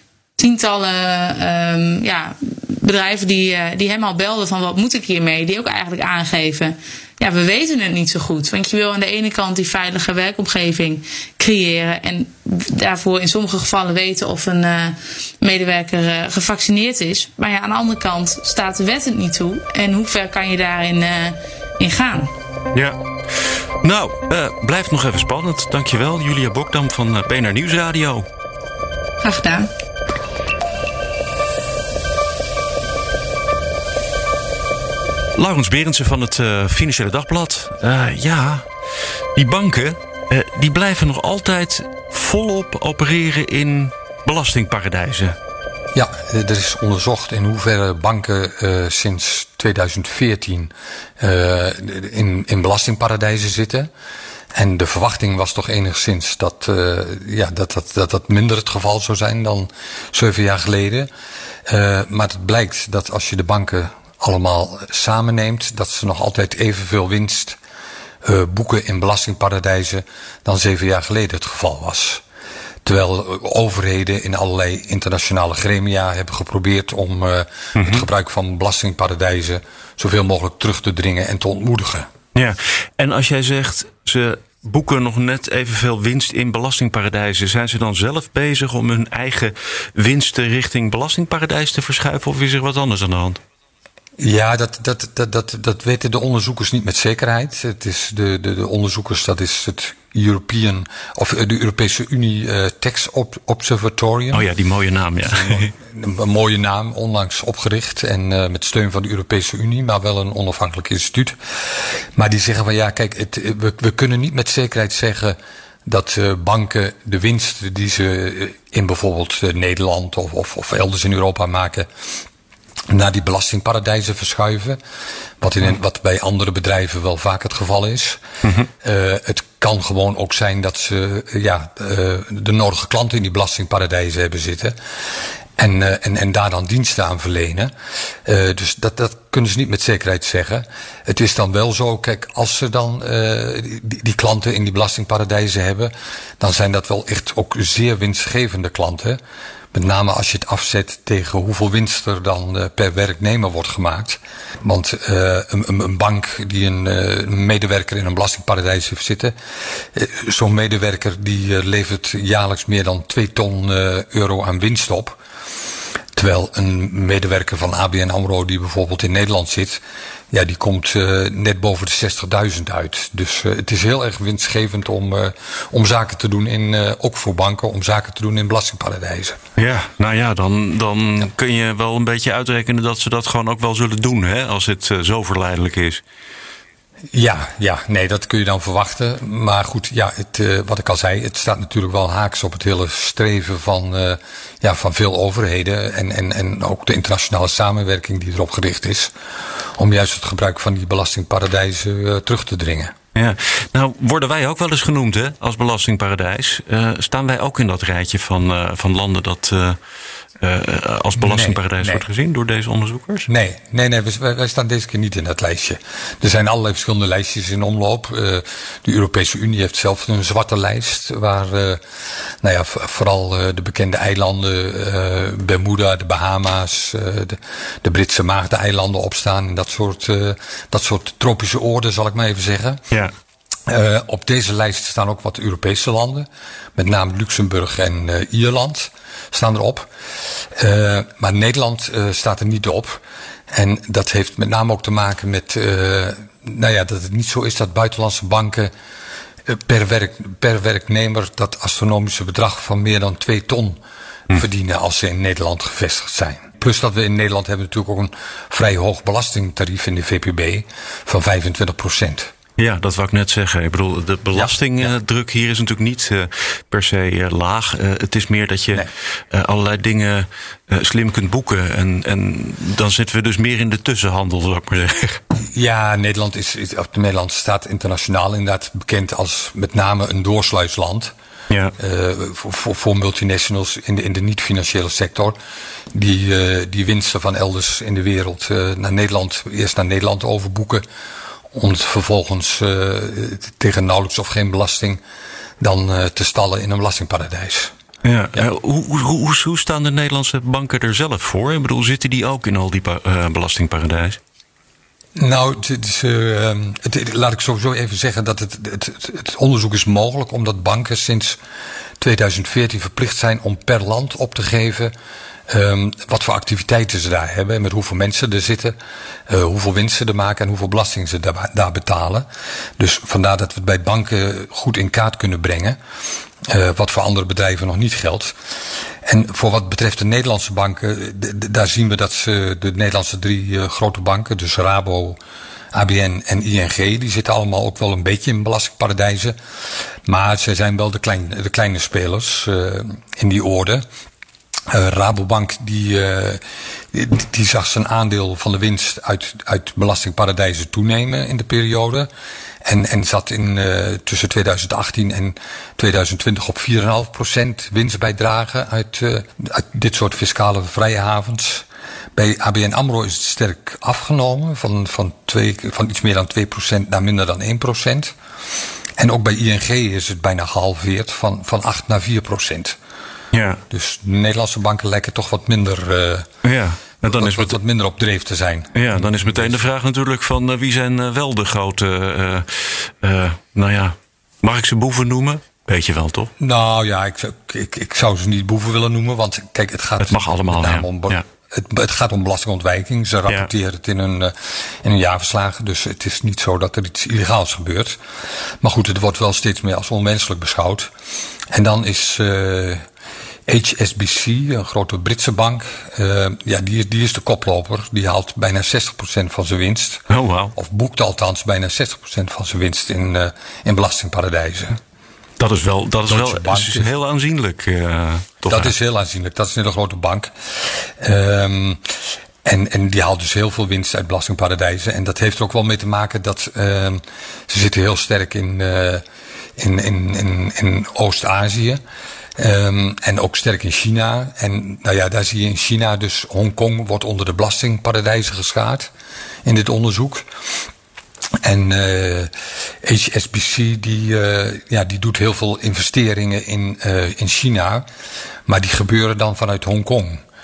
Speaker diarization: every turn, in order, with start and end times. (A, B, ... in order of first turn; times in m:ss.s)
0:00.4-0:22.3 A
0:22.7-0:28.2 B
0:29.2-0:29.7 A
0:35.4-0:38.7 B
0:39.4-0:45.4 B
0:45.9-0:53.9 C
0:54.5-1:01.1 C
1:01.7-1:07.6 C
1:08.2-1:12.2 C
1:12.8-1:22.1 C
1:17.8-1:18.1 B
1:22.3-1:33.4 B
1:34.2-1:44.5 C
1:44.3-1:45.7 B
1:45.2-2:01.9 C
2:02.9-2:04.8 C
2:05.4-2:08.2 C
2:08.4-2:08.7 B
2:08.8-2:14.8 C
2:15.6-2:17.7 C
2:18.2-2:29.2 C
2:29.7-2:45.2 C
2:46.1-2:59.4 C
2:59.6-3:06.0 B
3:07.1-3:19.1 C
3:19.8-3:22.9 C
3:23.1-3:29.8 B
3:30.4-3:33.3 B
3:31.2-3:32.0 C
3:33.3-3:41.8 C
3:42.4-3:52.8 C
3:53.7-3:59.9 C
4:00.5-4:03.0 C
4:03.5-4:08.7 C
4:09.5-4:13.8 C
4:14.3-4:22.3 C
4:22.6-4:35.2 B
4:24.3-4:24.9 C
4:35.5-4:41.1 C
4:41.5-4:41.7 B
4:41.8-4:45.4 C
4:45.9-4:50.8 C
4:51.5-4:55.0 C
4:55.6-4:57.7 C
4:58.0-5:04.2 B
5:05.2-5:11.4 C
5:12.0-5:14.9 C
5:15.5-5:18.7 C
5:19.3-5:22.3 C
5:22.8-5:25.8 C
5:26.5-5:28.3 C
5:29.0-5:35.2 C
5:35.7-5:39.4 C
5:40.0-5:43.8 C
5:44.7-5:52.1 C
5:52.6-6:08.1 C
6:09.0-6:12.8 C
6:13.3-6:13.6 B
6:13.7-6:16.3 C
6:16.4-6:17.6 B
6:17.0-6:19.6 C
6:18.7-6:26.3 B
6:26.4-6:38.0 C
6:30.0-6:31.2 B
6:38.6-6:40.9 C
6:41.5-6:42.8 C
6:43.5-6:50.0 C
6:50.1-6:50.5 B
6:50.5-6:54.8 C
6:55.4-6:58.7 B
6:56.1-6:56.9 C
6:58.5-7:01.8 C
7:02.4-7:09.0 C
7:09.6-7:11.8 C
7:12.4-7:18.9 C
7:19.4-7:20.2 C
7:21.4-7:22.3 C
7:22.8-7:27.8 C
7:28.5-7:30.2 C